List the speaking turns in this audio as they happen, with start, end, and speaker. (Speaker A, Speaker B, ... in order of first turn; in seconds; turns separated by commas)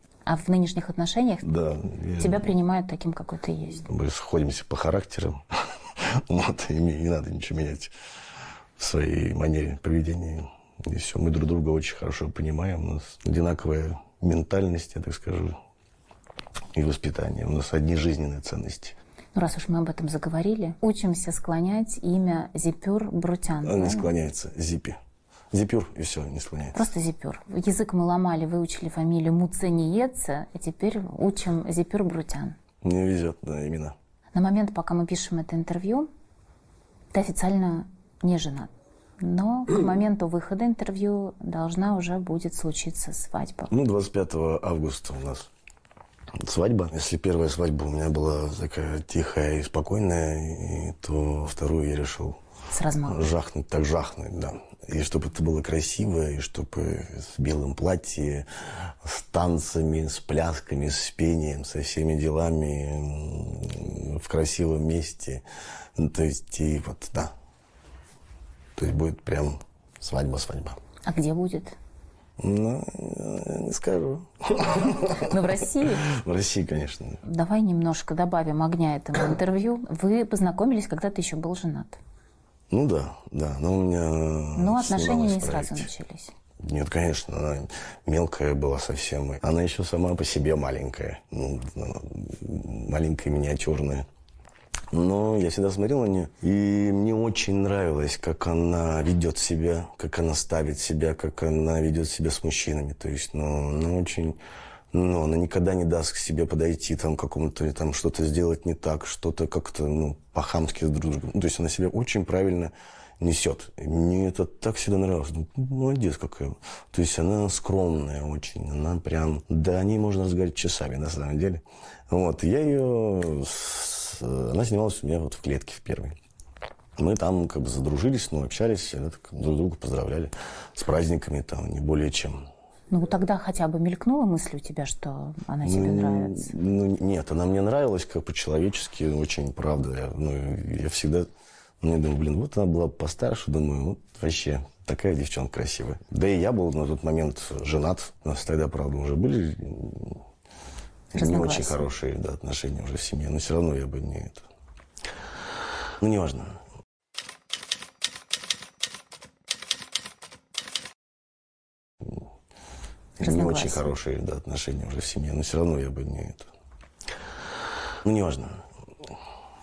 Speaker A: 0.3-1.5, Speaker B: 1.4-2.4, Speaker A: 2.2-3.9, Speaker B: 3.9-7.9, Speaker B: 8.8-15.6, Speaker B: 16.7-19.0, Speaker A: 19.4-24.1, Speaker B: 23.6-25.0, Speaker B: 25.5-26.8, Speaker A: 26.7-32.6, Speaker B: 32.8-34.0, Speaker A: 34.4-36.1, Speaker A: 37.1-43.7, Speaker B: 43.7-45.5, Speaker B: 46.4-52.4, Speaker A: 52.7-53.3, Speaker B: 53.1-65.4, Speaker B: 66.0-67.3, Speaker B: 68.8-70.8, Speaker A: 71.1-71.8, Speaker B: 72.4-77.2, Speaker A: 75.0-76.1, Speaker A: 77.2-82.0, Speaker B: 82.7-85.9, Speaker A: 84.6-86.3, Speaker B: 86.6-94.1, Speaker B: 94.9-104.4, Speaker B: 104.9-126.2, Speaker B: 127.0-132.4, Speaker A: 132.9-136.5, Speaker B: 135.6-141.3, Speaker B: 141.8-150.2, Speaker B: 151.1-154.5, Speaker A: 151.1-151.8, Speaker B: 156.0-156.6, Speaker B: 163.2-166.5, Speaker A: 163.2-163.9, Speaker B: 168.0-168.6